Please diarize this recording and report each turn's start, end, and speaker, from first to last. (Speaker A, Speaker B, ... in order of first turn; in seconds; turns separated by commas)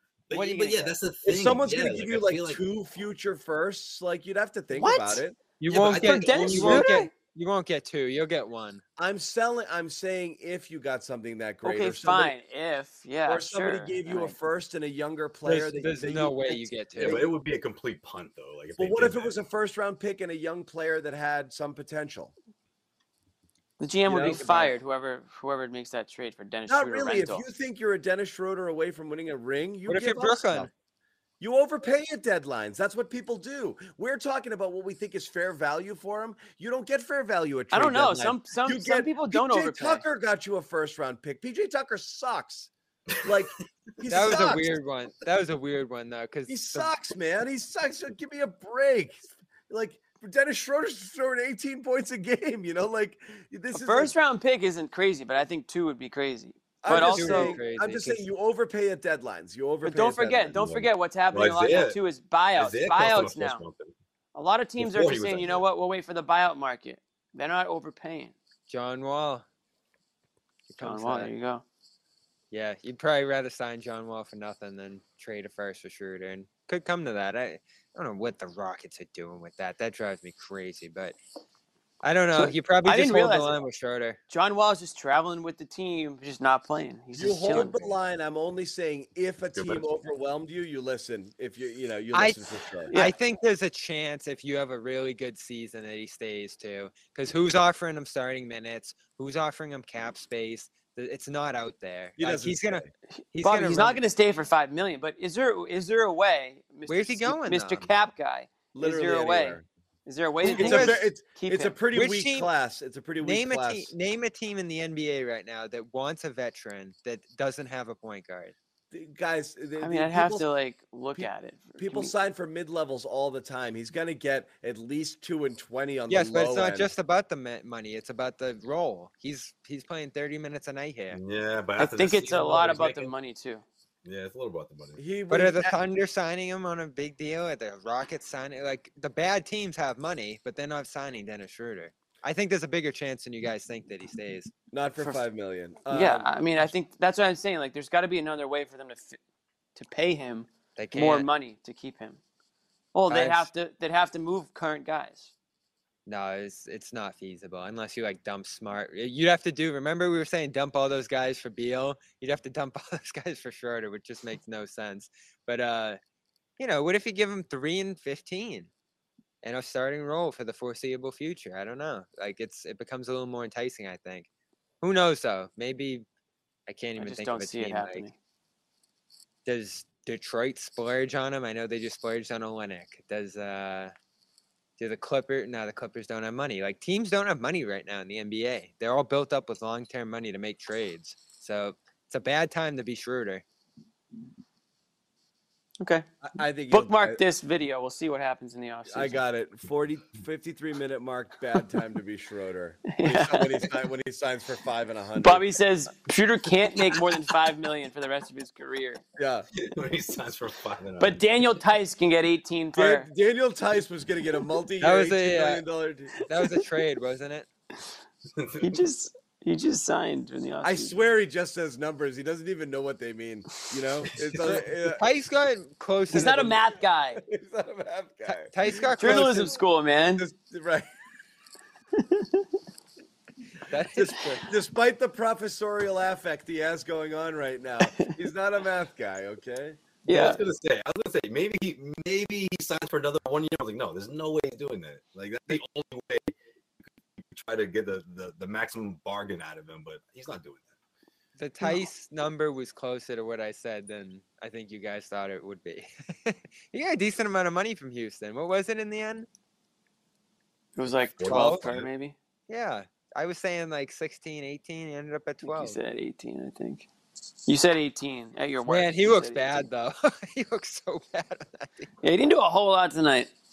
Speaker A: 0.3-2.6, Speaker B: 0.3-1.0, Speaker C: 1.2-5.4, Speaker B: 4.7-5.2, Speaker D: 5.6-8.8, Speaker A: 5.7-7.0, Speaker B: 5.9-7.1, Speaker C: 9.0-12.3, Speaker B: 11.6-14.4, Speaker C: 13.3-17.3, Speaker D: 15.4-17.3, Speaker A: 17.0-19.4, Speaker C: 18.8-22.3, Speaker B: 23.8-27.5, Speaker C: 24.1-24.7, Speaker C: 26.7-30.7, Speaker D: 29.9-30.7, Speaker C: 31.4-42.7, Speaker B: 37.7-40.0, Speaker C: 43.2-44.8, Speaker D: 44.1-46.9, Speaker C: 46.5-54.1, Speaker B: 53.7-57.6, Speaker C: 56.8-60.5, Speaker D: 56.9-58.2, Speaker B: 59.8-63.6, Speaker A: 60.5-62.0, Speaker A: 62.6-63.9, Speaker B: 64.3-68.3, Speaker A: 64.8-65.6, Speaker D: 68.7-69.5, Speaker D: 70.7-71.3, Speaker B: 70.8-71.6, Speaker D: 72.5-81.2, Speaker D: 82.0-84.2, Speaker B: 82.4-83.6, Speaker B: 84.3-87.8, Speaker C: 87.1-92.9, Speaker A: 89.5-89.9, Speaker D: 92.1-104.0, Speaker C: 102.2-102.9, Speaker B: 103.4-111.8, Speaker D: 106.9-107.9, Speaker C: 108.7-109.7, Speaker D: 110.4-111.0, Speaker C: 110.5-113.9, Speaker D: 111.9-112.5, Speaker D: 113.2-118.5, Speaker C: 118.9-120.5, Speaker B: 119.8-122.1, Speaker C: 121.2-126.9, Speaker D: 126.1-131.2, Speaker A: 131.1-133.1, Speaker B: 131.8-133.6, Speaker A: 134.1-135.0, Speaker C: 135.0-135.8, Speaker D: 135.3-144.5, Speaker C: 144.7-146.3, Speaker B: 145.9-149.2, Speaker B: 149.8-152.2, Speaker D: 150.8-151.3, Speaker B: 152.9-155.3, Speaker D: 153.1-153.5, Speaker D: 156.1-166.0, Speaker D: 166.6-168.7, Speaker D: 169.4-174.3, Speaker D: 174.8-176.1, Speaker D: 176.7-178.1, Speaker B: 177.0-178.1, Speaker D: 179.5-183.9, Speaker D: 184.8-193.4, Speaker C: 196.2-197.2, Speaker B: 196.7-199.2, Speaker C: 198.9-205.4, Speaker B: 202.9-203.7, Speaker B: 205.2-209.0, Speaker C: 209.2-209.5, Speaker A: 209.6-211.2, Speaker B: 211.0-213.1, Speaker C: 212.8-216.2, Speaker D: 214.8-215.6, Speaker D: 216.3-217.5, Speaker A: 218.4-218.8, Speaker B: 218.6-221.0, Speaker C: 220.6-225.1, Speaker D: 224.4-226.6, Speaker B: 226.1-227.2, Speaker C: 227.2-229.6, Speaker D: 228.3-229.5, Speaker B: 229.0-230.3, Speaker C: 230.2-230.9, Speaker B: 232.0-232.5, Speaker D: 233.7-234.5, Speaker C: 233.9-239.8, Speaker B: 237.8-238.2, Speaker B: 240.1-240.4, Speaker A: 240.1-246.3, Speaker A: 247.3-250.7, Speaker D: 251.4-259.3, Speaker B: 260.8-262.1, Speaker A: 261.2-261.9, Speaker D: 261.2-261.7, Speaker D: 262.5-265.8, Speaker B: 265.4-266.9, Speaker B: 267.5-269.6, Speaker D: 268.7-271.9, Speaker B: 272.0-273.3